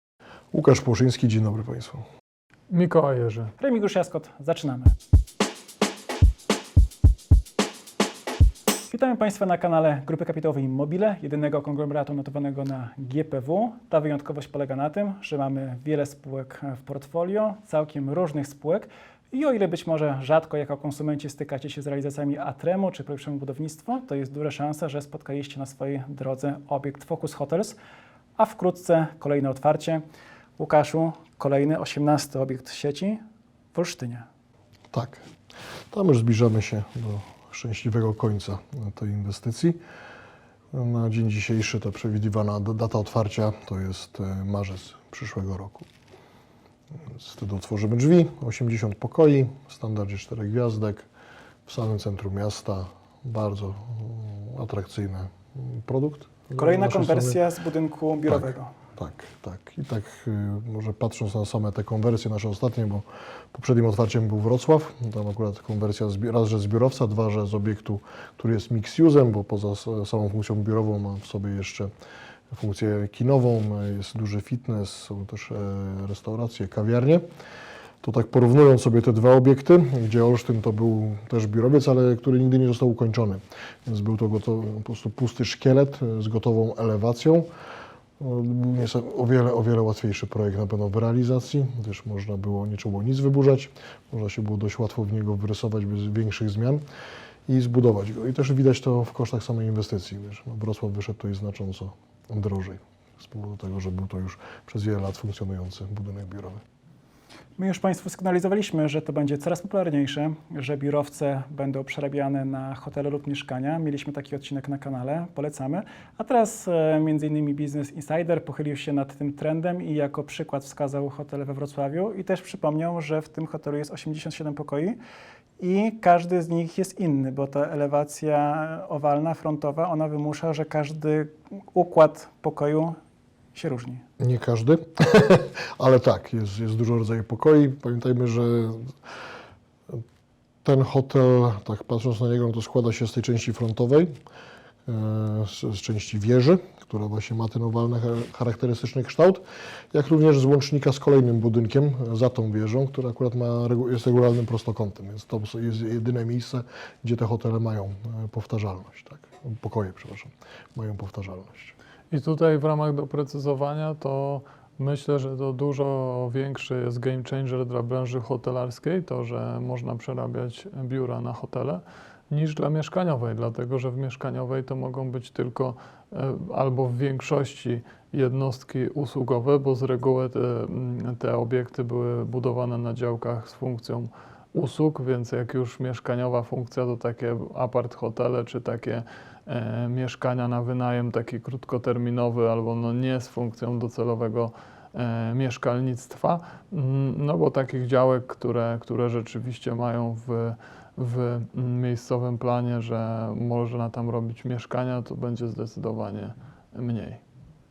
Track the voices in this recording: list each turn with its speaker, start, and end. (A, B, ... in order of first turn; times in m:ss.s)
0:00.5-0:02.1 A
0:02.7-0:03.5 B
0:03.6-0:04.9 C
0:08.9-0:27.8 C
0:28.4-0:30.0 C
0:30.6-0:33.2 C
0:33.7-0:34.3 C
0:34.9-0:35.2 A
0:35.9-0:39.8 A
0:40.7-0:45.9 A
0:47.0-0:51.1 A
0:51.7-0:57.4 A
0:56.6-0:58.7 C
0:59.0-1:11.9 A
1:12.5-1:17.2 A
1:18.0-1:27.5 A
1:28.2-1:36.8 A
1:37.5-1:46.6 A
1:47.6-2:05.0 C
2:05.6-2:13.0 C
2:13.5-2:14.0 C
2:14.2-2:19.0 A
2:20.6-2:24.1 A
2:24.9-2:41.7 A
2:42.1-3:27.2 B